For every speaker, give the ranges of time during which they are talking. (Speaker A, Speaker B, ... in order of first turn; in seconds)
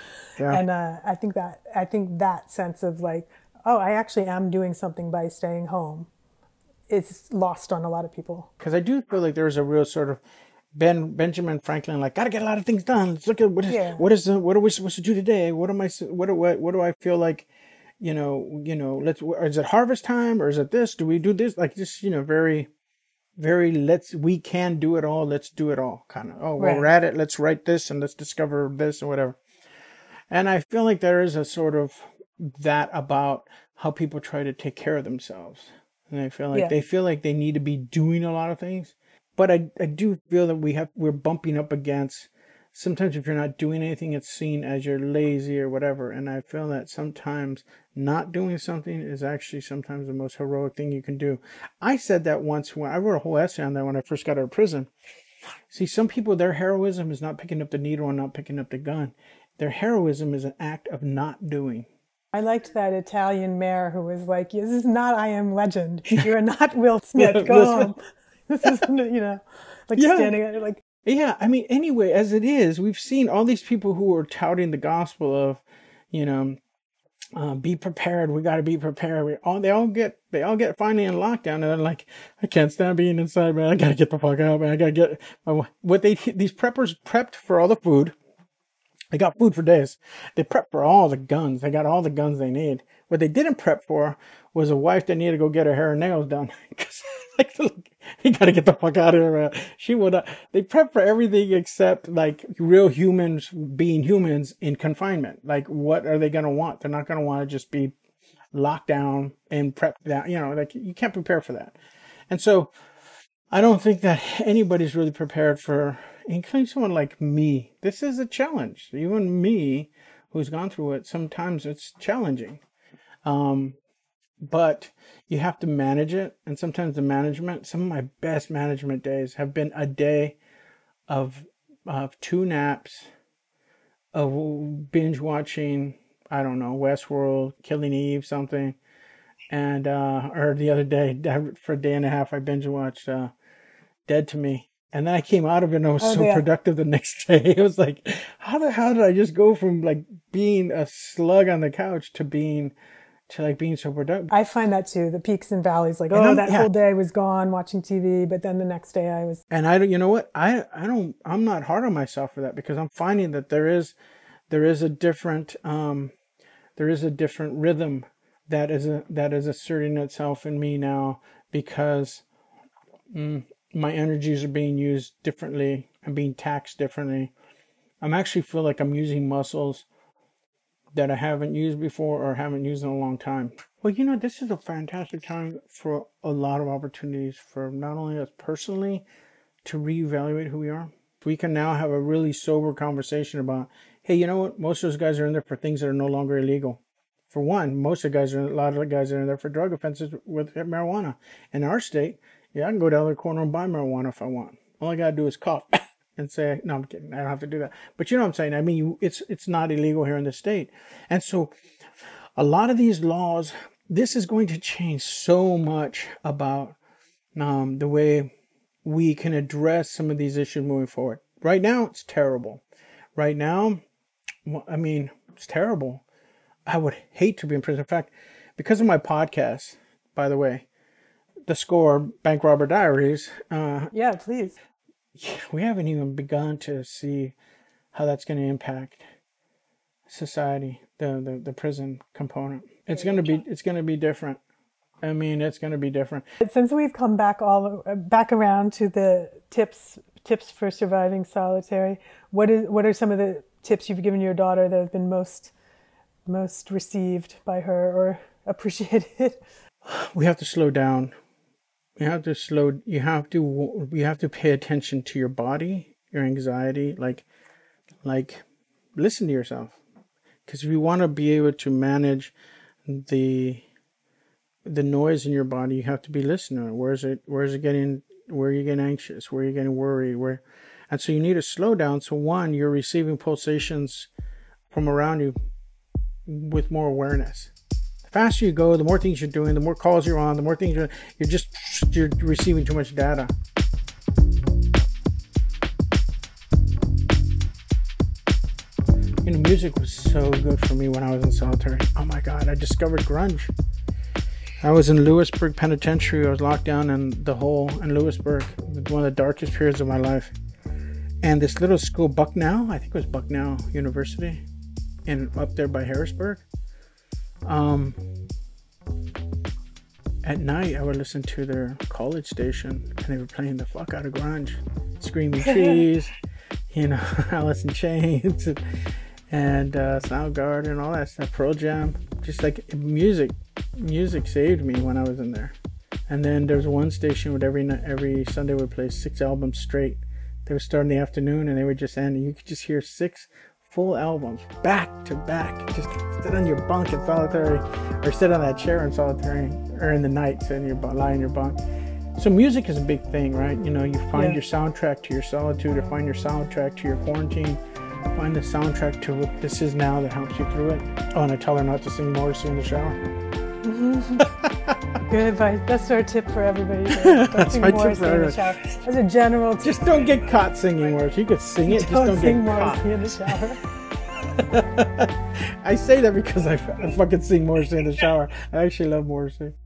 Speaker A: 0.4-0.6, 8.6-10.2, 10.7-17.5, 18.0-22.7, 23.4-29.4, 30.3-54.9, 55.7-61.9, 67.2-67.9, 70.0-70.3, 71.0-76.6, 77.4-88.2, 89.1-108.0, 108.5-111.8, 112.3-112.7, 113.5-122.6, 123.2-123.8, 124.4-130.4, 131.1-133.1, 134.1-138.8, 139.5-143.3, 144.1-152.7, 153.3-154.3, 156.1-156.7, 159.5-163.9, 164.5-166.1, 166.8-172.2, 173.1-177.3, 178.0-179.9, 180.9-189.1, 189.6-211.5, 212.4-216.8, 217.3-218.3, 218.8-222.6, 223.2-223.8, 224.4-226.0, 226.7-230.7, 231.5-233.9, 235.2-237.4, 237.9-239.0, 240.1-244.4, 245.0-246.2, 259.9-261.1, 262.0-267.3, 268.0-268.4, 269.0-269.8, 270.5-272.3, 272.9-273.6, 274.6-284.1, 284.7-285.4, 286.3-287.5, 288.0-293.3, 299.2-303.5, 304.6-310.4, 311.2-314.4, 315.1-316.4, 317.4-318.0, 320.2-326.1, 326.7-328.6, 329.3-335.6, 336.1-351.6, 352.1-357.6, 358.1-363.0, 364.2-364.8, 366.9-368.4, 369.6-373.4, 374.2-379.5
Speaker B: 0.5-6.1, 6.9-8.5, 13.7-14.0, 26.6-26.9, 62.3-70.8, 146.0-146.4, 154.3-159.4, 233.9-234.6, 246.4-255.5, 256.3-259.4, 325.5-325.8, 354.1-354.4, 363.6-364.3, 365.1-369.8, 371.7-373.6